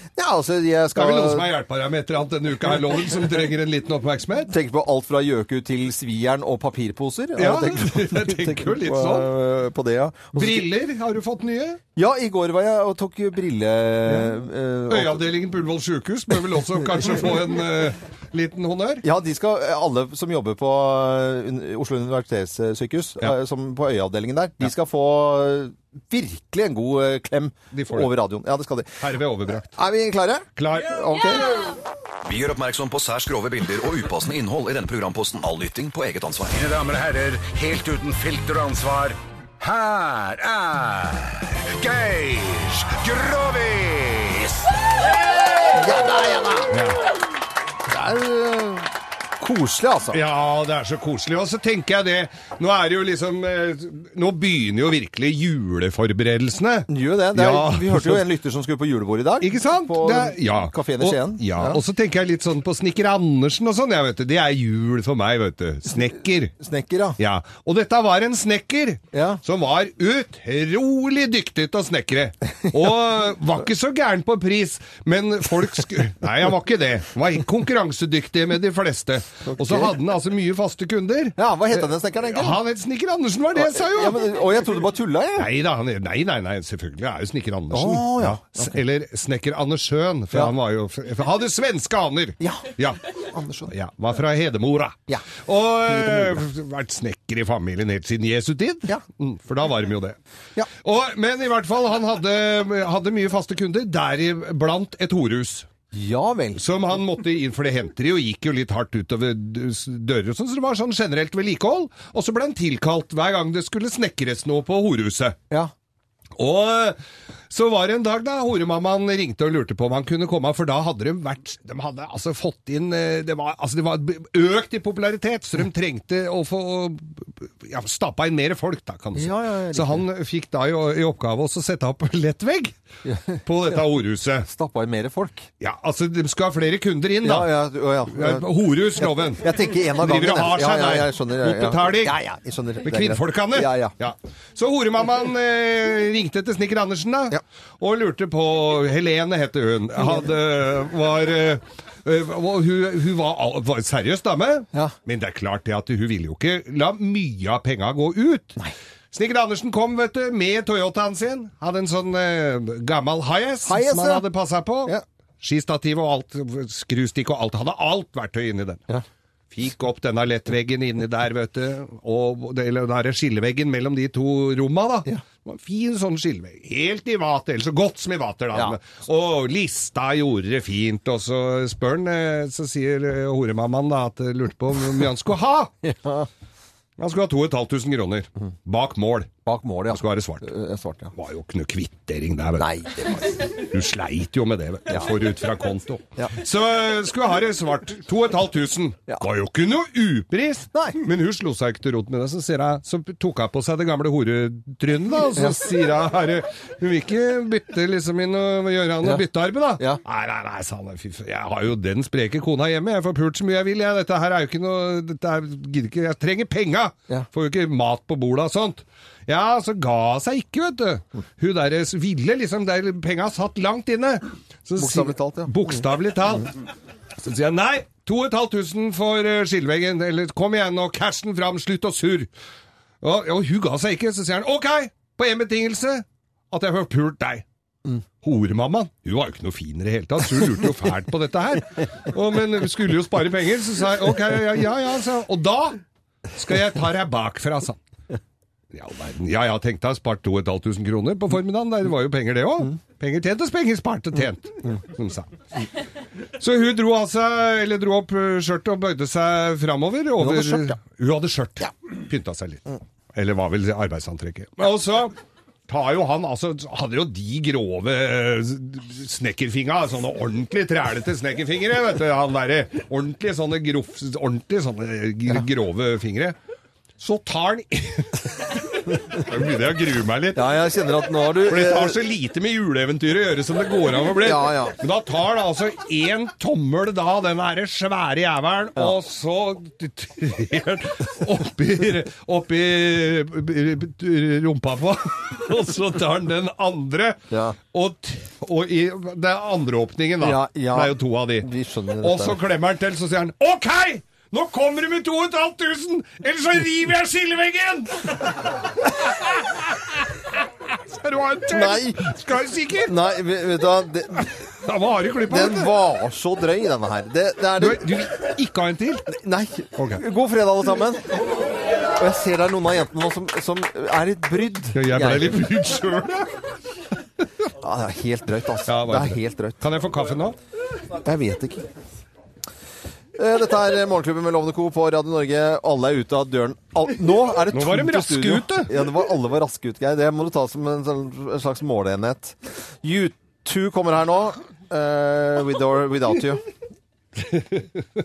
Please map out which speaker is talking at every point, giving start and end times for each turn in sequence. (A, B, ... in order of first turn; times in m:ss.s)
0:00.2-0:01.5 A
0:00.9-0:04.5 B
0:04.5-0:10.6 A
0:07.4-0:09.3 B
0:10.3-0:11.8 B
0:12.0-0:15.2 A
0:14.1-0:14.3 B
0:14.9-0:19.0 B
0:19.0-0:29.0 A
0:27.7-0:28.1 B
0:29.0-0:29.7 B
0:29.7-0:31.7 A
0:30.6-0:31.0 B
0:32.2-0:36.6 C
0:36.5-0:44.6 D
0:45.7-0:46.7 A
0:46.7-0:47.0 B
0:47.8-0:50.2 A
0:50.1-0:58.2 B
0:56.9-1:01.8 A
0:59.4-1:06.5 B
1:06.6-1:07.2 A
1:07.2-1:24.4 B
1:09.1-1:09.4 A
1:19.4-1:19.9 A
1:21.4-1:22.6 A
1:23.5-1:25.5 A
1:25.4-1:33.0 B
1:27.7-1:28.8 A
1:32.4-1:33.7 A
1:33.7-1:40.2 B
1:35.9-1:36.4 A
1:40.8-1:45.7 B
1:45.9-1:46.6 A
1:46.6-1:55.4 B
1:56.4-1:57.0 B
1:57.5-2:12.8 B
2:09.2-2:10.0 A
2:13.0-2:13.8 A
2:13.4-2:14.5 B
2:14.4-2:15.5 A
2:15.6-2:17.5 B
2:17.2-2:23.9 A
2:18.1-2:22.1 B
2:22.8-2:38.6 B
2:30.0-2:30.3 A
2:39.1-2:48.8 B
2:43.6-2:44.3 A
2:49.5-3:05.7 B
3:05.8-3:06.3 A
3:07.0-3:09.3 B
3:09.4-3:11.1 A
3:09.9-3:10.5 B
3:11.1-3:12.9 B
3:12.6-3:13.6 A
3:13.4-3:46.5 B
3:14.9-3:15.1 A
3:20.7-3:21.0 A
3:25.3-3:25.6 A
3:44.8-3:45.8 A
3:47.2-3:52.3 B
3:53.0-3:57.4 B
3:58.2-4:05.8 B
4:06.3-4:07.8 B
4:08.7-4:15.3 B
4:16.4-4:25.1 B
4:20.2-4:20.8 A
4:25.7-4:36.4 B
4:37.0-4:40.5 B
4:40.3-4:42.0 A
4:41.4-4:57.2 B
4:44.2-4:44.8 A
4:57.3-4:57.6 A
4:57.7-5:01.5 B
5:00.2-5:02.4 A
5:02.0-5:10.1 B
5:10.7-5:12.9 B
5:11.5-5:12.2 A
5:12.8-5:14.3 A
5:14.2-5:15.7 B
5:15.3-5:18.0 A
5:17.6-5:19.1 B
5:19.1-5:21.2 A
5:19.8-5:20.0 B
5:21.9-5:25.5 A
5:24.7-5:26.3 B
5:27.6-5:29.6 A
5:28.6-5:30.4 B
5:31.0-5:31.6 A
5:33.1-5:46.4 A
5:37.5-5:38.7 B
5:47.3-5:47.6 B